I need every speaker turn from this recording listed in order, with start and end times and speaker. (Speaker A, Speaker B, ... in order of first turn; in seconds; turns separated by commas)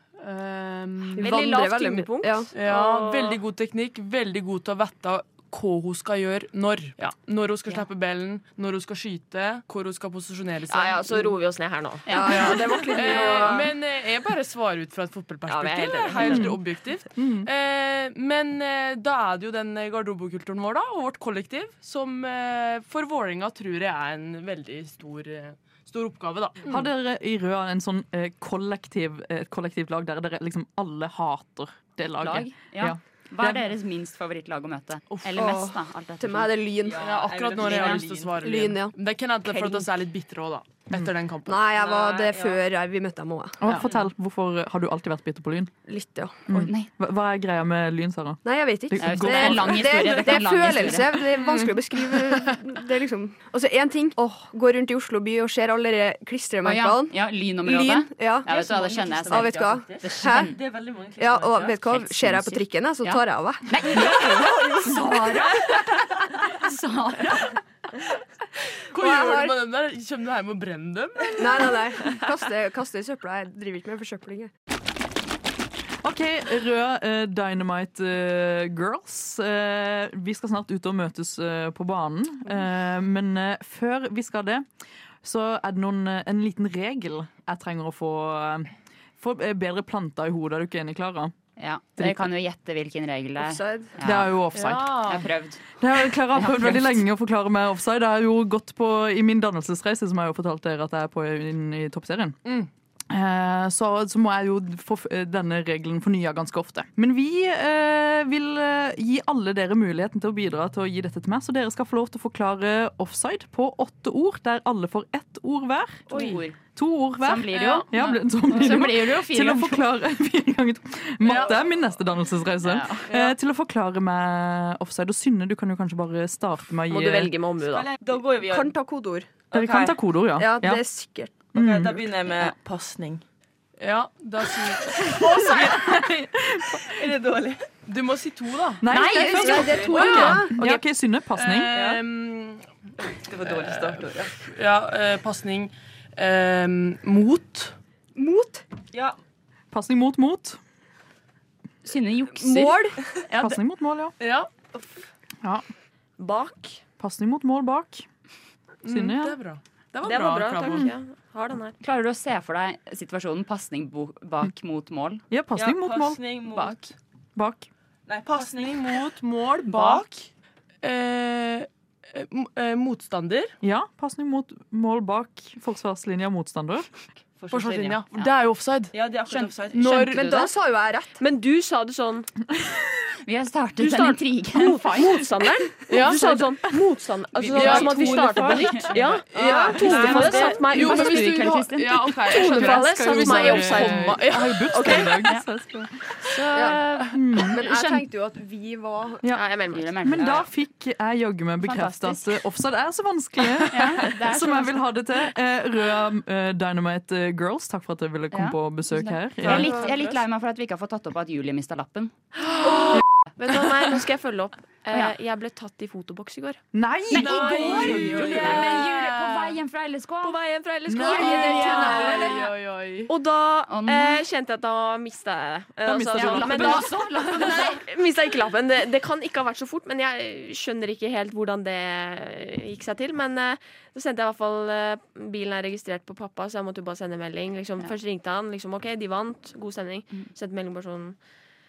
Speaker A: 0.2-1.5, Speaker B: 1.2-2.5, Speaker C: 1.2-2.9, Speaker A: 2.5-11.3, Speaker C: 10.7-13.7, Speaker D: 12.1-12.9, Speaker B: 12.1-13.7, Speaker A: 12.2-26.8, Speaker C: 15.5-16.6, Speaker E: 16.2-16.6, Speaker E: 17.1-17.5, Speaker E: 26.6-33.7, Speaker D: 32.2-36.5, Speaker B: 35.4-37.0, Speaker F: 36.8-38.5, Speaker A: 37.0-41.6, Speaker D: 37.6-38.0, Speaker B: 38.4-39.0, Speaker B: 41.5-43.7, Speaker F: 41.8-42.6, Speaker E: 43.6-45.7, Speaker B: 45.9-46.4, Speaker E: 46.5-50.3, Speaker D: 46.6-46.9, Speaker B: 48.5-57.1, Speaker D: 49.0-51.2, Speaker D: 56.6-60.5, Speaker B: 57.7-58.5, Speaker F: 58.5-61.9, Speaker B: 59.3-60.5, Speaker B: 61.2-66.0, Speaker D: 61.9-67.6, Speaker A: 68.9-71.8, Speaker B: 69.0-69.6, Speaker B: 71.4-74.5, Speaker E: 76.0-84.7, Speaker E: 85.2-91.3, Speaker D: 91.6-95.6, Speaker E: 92.0-92.3, Speaker B: 93.4-93.9, Speaker E: 94.0-95.2, Speaker A: 94.6-95.2, Speaker E: 95.8-102.4, Speaker D: 96.3-97.0, Speaker E: 103.1-116.1, Speaker D: 116.1-116.6, Speaker A: 116.1-116.4, Speaker E: 116.8-127.3, Speaker D: 117.2-119.9, Speaker A: 121.2-121.5, Speaker D: 122.6-123.0, Speaker F: 123.1-123.3, Speaker C: 126.9-127.9, Speaker F: 127.7-128.8, Speaker B: 128.5-129.3, Speaker F: 129.5-130.0, Speaker E: 129.5-130.8, Speaker B: 130.4-131.3, Speaker E: 131.5-132.1, Speaker F: 131.5-133.2, Speaker A: 133.8-135.6, Speaker E: 135.2-137.0, Speaker F: 136.8-137.7, Speaker A: 137.9-138.8, Speaker E: 138.8-141.7, Speaker D: 138.9-139.9, Speaker B: 138.9-140.6, Speaker F: 139.5-140.4, Speaker A: 140.0-140.8, Speaker A: 141.3-142.7, Speaker F: 141.7-142.0, Speaker F: 143.0-144.4, Speaker A: 143.4-147.7, Speaker B: 148.2-148.7, Speaker E: 149.7-150.6, Speaker D: 151.8-153.5, Speaker B: 152.3-153.0, Speaker E: 153.3-154.1, Speaker F: 154.2-154.8, Speaker C: 156.2-156.8, Speaker E: 157.0-158.1, Speaker A: 158.8-160.9, Speaker E: 158.9-159.4, Speaker C: 160.0-161.8, Speaker D: 161.8-165.3, Speaker E: 165.3-166.2, Speaker F: 165.6-166.9, Speaker E: 167.4-167.7, Speaker F: 168.1-169.1, Speaker A: 168.4-170.3, Speaker D: 169.7-170.0, Speaker A: 170.8-173.6, Speaker E: 173.6-176.9, Speaker F: 177.4-178.1, Speaker A: 177.5-178.9, Speaker F: 178.9-180.4, Speaker A: 179.7-180.4, Speaker B: 180.1-181.2, Speaker C: 181.2-182.3, Speaker D: 183.2-185.3, Speaker C: 183.8-191.4, Speaker A: 185.9-186.6, Speaker F: 187.5-190.3, Speaker A: 187.5-188.7, Speaker D: 187.5-188.9, Speaker A: 189.3-195.0, Speaker B: 189.3-189.8, Speaker D: 189.7-192.2, Speaker C: 192.2-195.3, Speaker E: 192.3-195.9, Speaker D: 196.1-198.1, Speaker B: 196.5-196.8, Speaker E: 197.1-197.6, Speaker B: 197.4-199.2, Speaker C: 199.3-200.1, Speaker D: 199.7-200.5, Speaker E: 200.0-209.8, Speaker F: 200.2-200.4, Speaker D: 201.6-202.4, Speaker D: 203.7-204.8, Speaker D: 208.3-212.2, Speaker A: 209.4-209.8, Speaker C: 209.5-210.2, Speaker C: 212.6-216.6, Speaker E: 216.7-218.3, Speaker D: 217.1-220.4, Speaker A: 217.1-219.4, Speaker F: 217.4-217.8, Speaker C: 217.8-218.9, Speaker C: 220.2-222.4, Speaker E: 220.9-222.4, Speaker D: 221.0-222.3, Speaker A: 221.2-223.1, Speaker C: 223.1-241.2, Speaker D: 223.7-224.3, Speaker E: 225.8-227.7, Speaker D: 226.1-227.8